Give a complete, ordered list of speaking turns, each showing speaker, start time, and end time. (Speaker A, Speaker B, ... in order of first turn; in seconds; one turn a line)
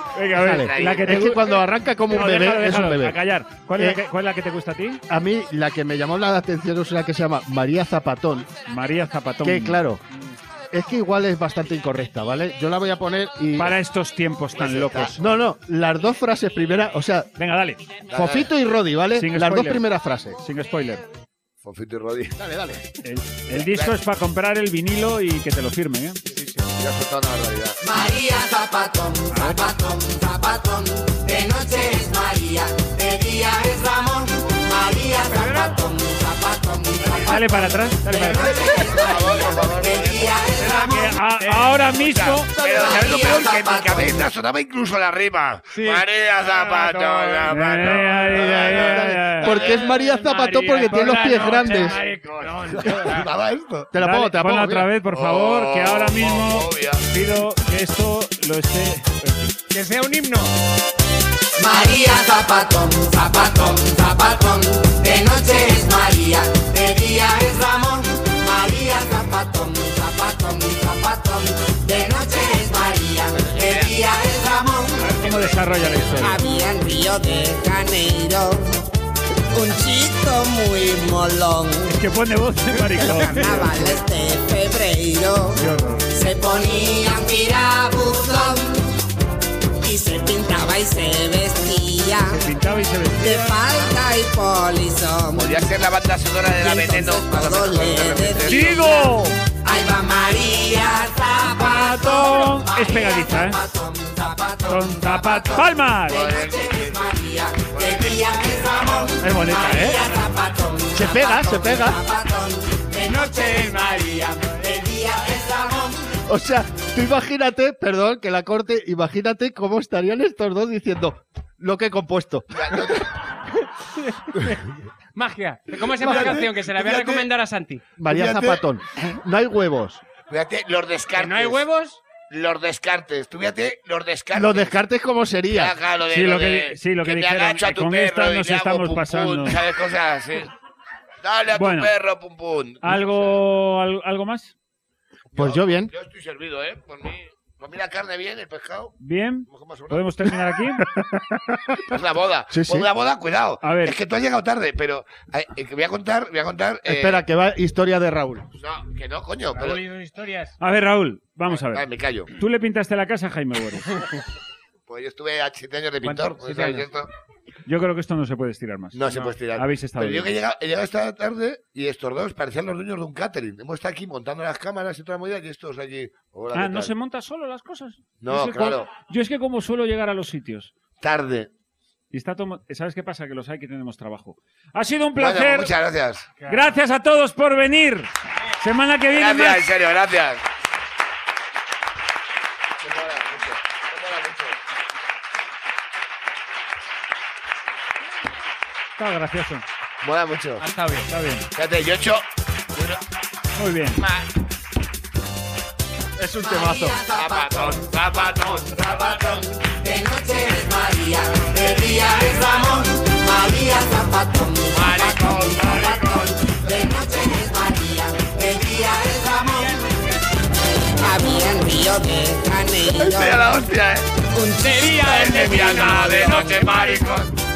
Speaker A: 0.1-5.0
Speaker B: 0.3-3.2
Speaker C: 0.6-1.4
Speaker B: 5.1-8.5
Speaker A: 8.7-10.4
Speaker B: 9.4-10.0
Speaker B: 10.7-13.7
Speaker A: 13.6-15.2
Speaker C: 14.6-15.2
Speaker B: 15.2-17.3
Speaker A: 17.4-17.8
Speaker C: 18.1-18.5
Speaker B: 18.1-20.4
Speaker A: 19.1-21.1
Speaker C: 21.6-22.4
Speaker B: 22.4-22.9
Speaker A: 23.0-26.2
Speaker C: 23.5-23.9
Speaker D: 26.3-26.7
Speaker C: 26.8-27.8
Speaker E: 27.8-41.2
Speaker A: 29.3-29.6
Speaker A: 35.4-35.7
Speaker A: 37.2-38.6
Speaker C: 38.3-40.4
Speaker A: 40.6-43.0
Speaker D: 41.4-41.7
Speaker C: 42.0-49.9
Speaker E: 42.6-44.1
Speaker D: 45.7-48.4
Speaker A: 47.5-49.5
Speaker B: 48.3-52.0
Speaker D: 49.4-53.3
Speaker C: 51.5-53.9
Speaker B: 53.9-54.9
Speaker A: 54.0-59.5
Speaker C: 55.1-57.0
Speaker D: 59.7-60.5
Speaker E: 61.6-75.1
Speaker C: 73.3-73.9
Speaker C: 75.0-76.4
Speaker A: 75.0-76.4
Speaker E: 76.2-78.8
Speaker E: 79.5-82.0
Speaker A: 81.9-84.0
Speaker E: 83.0-89.0
Speaker A: 85.5-86.1
Speaker E: 89.8-92.4
Speaker A: 92.3-93.7
Speaker E: 93.2-95.6
Speaker C: 95.3-99.0
Speaker E: 96.5-116.1
Speaker A: 98.5-99.3
Speaker A: 101.5-103.6
Speaker A: 104.7-106.3
Speaker C: 106.1-107.1
Speaker C: 107.7-109.0
Speaker A: 109.2-110.0
Speaker B: 110.9-112.0
Speaker D: 113.0-114.0
Speaker B: 116.3-122.8
Speaker C: 122.5-123.1
Speaker D: 124.0-124.5
Speaker D: 125.1-127.8
Speaker B: 126.0-126.4
Speaker C: 126.0-127.3
Speaker B: 128.0-130.0
Speaker C: 128.1-128.6
Speaker C: 130.3-131.6
Speaker D: 131.2-132.0
Speaker C: 132.3-134.7
Speaker B: 134.3-135.7
Speaker C: 135.5-140.5
Speaker A: 136.1-139.6
Speaker C: 141.2-143.4
Speaker A: 141.5-141.9
Speaker A: 142.8-144.6
Speaker C: 145.3-148.9
Speaker B: 145.3-145.9
Speaker A: 149.0-150.9
Speaker C: 149.5-150.0
Speaker B: 150.8-151.9
Speaker C: 151.9-157.2
Speaker B: 152.5-152.9
Speaker A: 153.6-154.0
Speaker B: 156.8-158.5
Speaker C: 158.6-159.8
Speaker D: 159.5-160.6
Speaker A: 160.6-164.1
Speaker C: 161.5-162.3
Speaker C: 164.9-167.1
Speaker B: 166.3-166.8
Speaker A: 167.7-170.3
Speaker C: 168.9-176.9
Speaker A: 176.5-180.7
Speaker C: 178.2-178.9
Speaker C: 181.0-181.5
Speaker A: 182.1-185.7
Speaker C: 185.2-186.4
Speaker A: 186.4-189.6
Speaker C: 189.1-190.4
Speaker C: 192.8-194.6
Speaker A: 199.0-199.6
Speaker C: 200.0-200.6
Speaker D: 200.6-201.1
Speaker A: 201.1-201.5
Speaker C: 201.6-203.0
Speaker A: 203.6-204.0
Speaker C: 204.0-204.2
Speaker B: 206.2-207.0
Speaker E: 206.4-207.8
Speaker C: 207.1-209.5
Speaker E: 208.8-220.0
Speaker C: 214.7-216.5
Speaker D: 219.6-220.1
Speaker E: 221.0-223.6
Speaker C: 222.8-224.1
Speaker E: 224.3-226.8
Speaker D: 224.6-227.2
Speaker C: 225.0-227.3